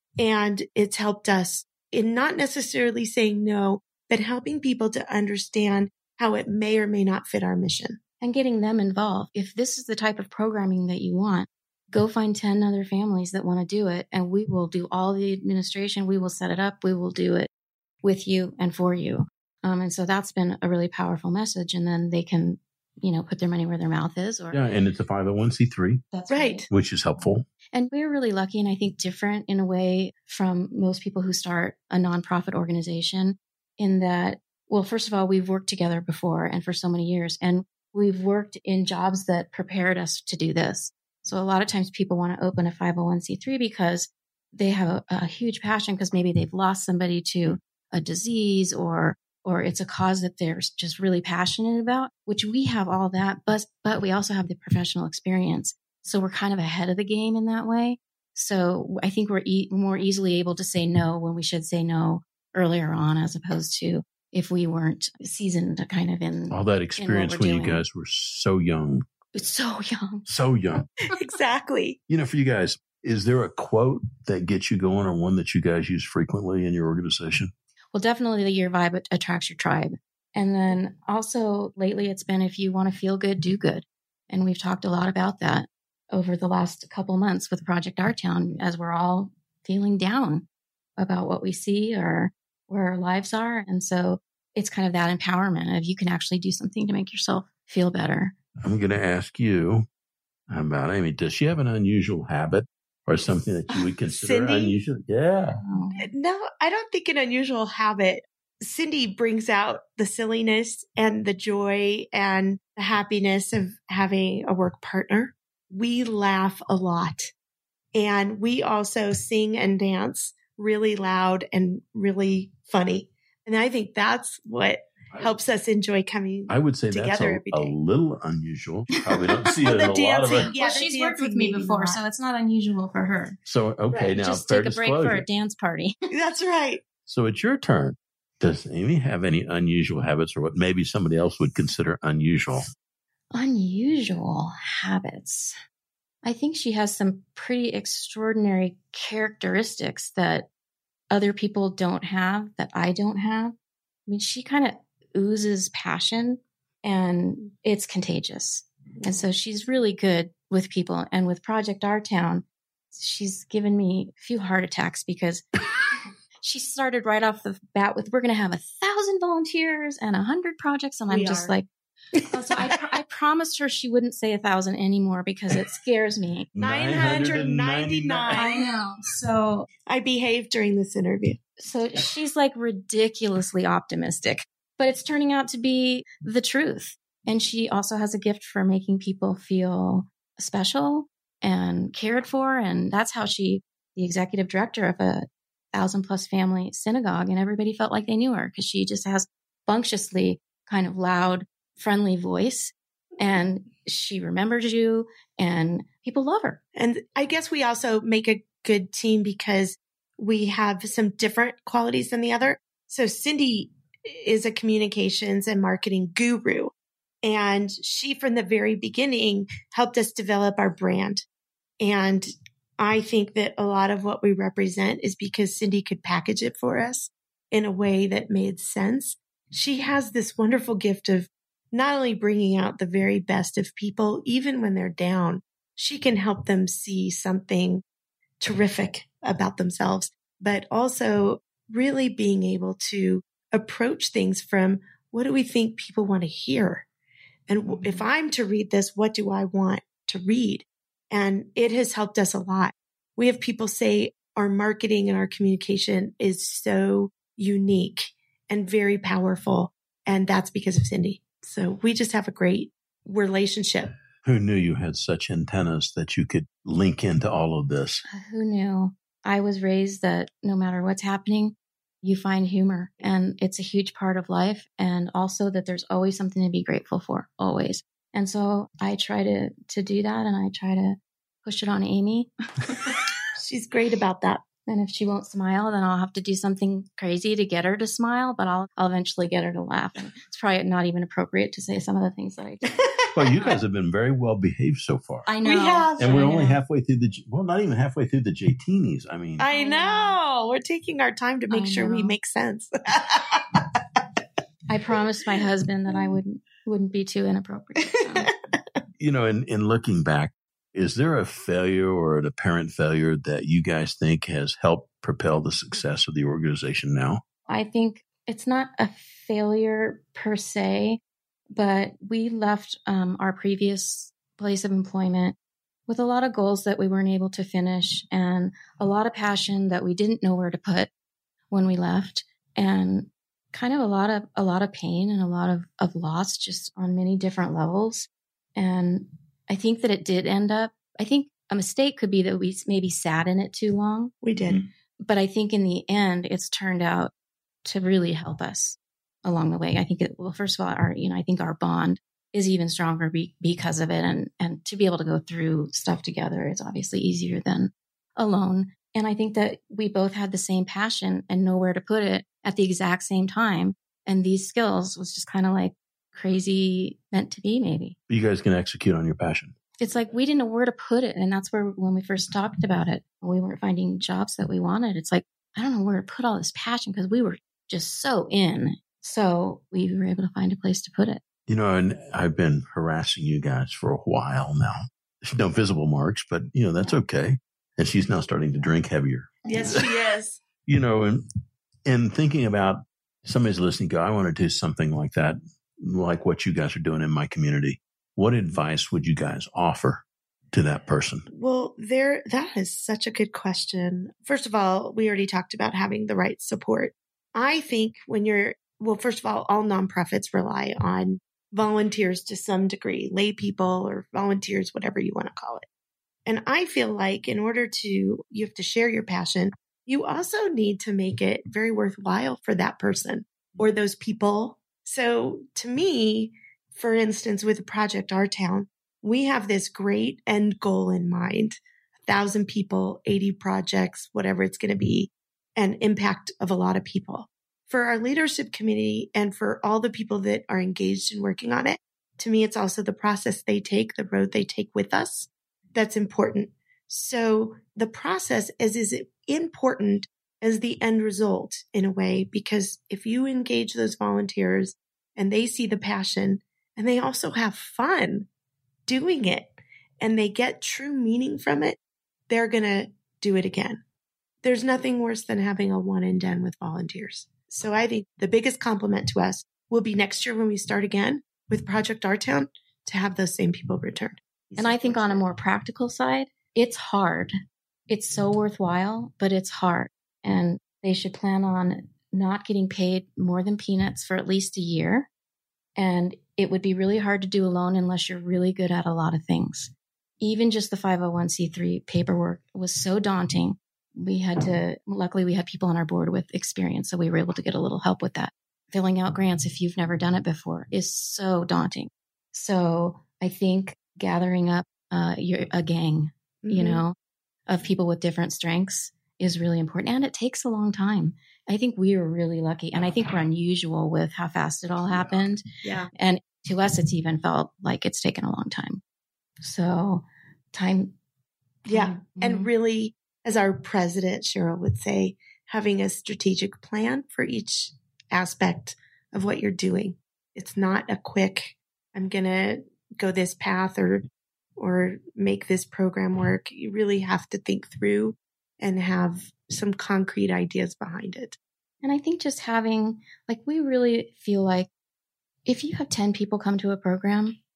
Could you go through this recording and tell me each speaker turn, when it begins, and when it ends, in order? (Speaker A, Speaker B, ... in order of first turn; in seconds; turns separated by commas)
Speaker A: 0.2-8.0, Speaker B: 8.2-17.5, Speaker B: 18.0-24.6, Speaker C: 24.5-26.0, Speaker B: 26.1-26.7, Speaker A: 26.3-26.7, Speaker C: 26.7-27.4, Speaker B: 27.7-67.8, Speaker C: 66.5-69.1, Speaker B: 69.3-70.3, Speaker C: 70.3-70.9, Speaker A: 71.1-72.0, Speaker C: 72.1-77.5, Speaker B: 77.9-90.5, Speaker B: 91.0-98.3, Speaker C: 98.6-99.9, Speaker C: 100.5-105.6, Speaker A: 104.1-104.8, Speaker B: 105.6-106.1, Speaker A: 106.0-117.3, Speaker A: 118.0-127.7, Speaker C: 126.5-130.5, Speaker A: 129.6-132.0, Speaker B: 130.4-133.4, Speaker C: 133.4-135.3, Speaker B: 134.1-135.9, Speaker A: 136.1-136.8, Speaker C: 137.1-142.7, Speaker B: 143.3-145.6, Speaker B: 146.2-150.5, Speaker B: 151.1-153.6, Speaker B: 154.1-165.6, Speaker B: 166.4-171.7, Speaker A: 171.1-171.6, Speaker A: 172.1-172.8, Speaker B: 172.3-176.5, Speaker C: 176.5-178.4, Speaker A: 176.6-178.7, Speaker B: 178.3-179.7, Speaker A: 179.9-181.4, Speaker B: 181.6-206.6, Speaker A: 206.7-221.3, Speaker A: 221.8-237.8, Speaker A: 238.4-246.9, Speaker A: 247.5-263.9, Speaker B: 247.7-248.1, Speaker C: 264.2-268.0, Speaker B: 268.1-283.0, Speaker A: 283.4-284.4, Speaker B: 284.7-292.9, Speaker C: 293.1-295.3, Speaker B: 295.3-296.6, Speaker A: 295.4-296.6, Speaker C: 296.0-299.4, Speaker A: 299.4-304.1, Speaker B: 299.5-300.2, Speaker B: 301.5-302.2, Speaker B: 304.7-308.3, Speaker A: 305.9-306.2, Speaker A: 308.0-308.6, Speaker C: 309.0-317.2, Speaker B: 317.5-325.4, Speaker B: 325.9-330.9, Speaker B: 331.5-344.1, Speaker A: 344.2-344.6, Speaker B: 345.0-347.1, Speaker B: 347.6-368.0, Speaker C: 368.1-369.5, Speaker B: 369.8-381.2, Speaker C: 381.5-389.8, Speaker A: 389.4-390.4, Speaker B: 389.5-389.7, Speaker C: 390.6-391.2, Speaker C: 391.9-401.2, Speaker A: 401.3-415.7, Speaker A: 416.3-458.3, Speaker A: 458.9-461.8, Speaker A: 462.3-463.8, Speaker A: 464.4-475.3, Speaker B: 474.6-477.3, Speaker B: 477.9-485.1, Speaker B: 485.8-506.9, Speaker A: 506.4-506.8, Speaker B: 507.5-515.4, Speaker A: 515.6-515.9, Speaker B: 516.0-518.8, Speaker B: 519.4-521.0, Speaker B: 521.7-522.5, Speaker A: 521.7-541.4, Speaker B: 541.8-544.7, Speaker B: 545.5-547.4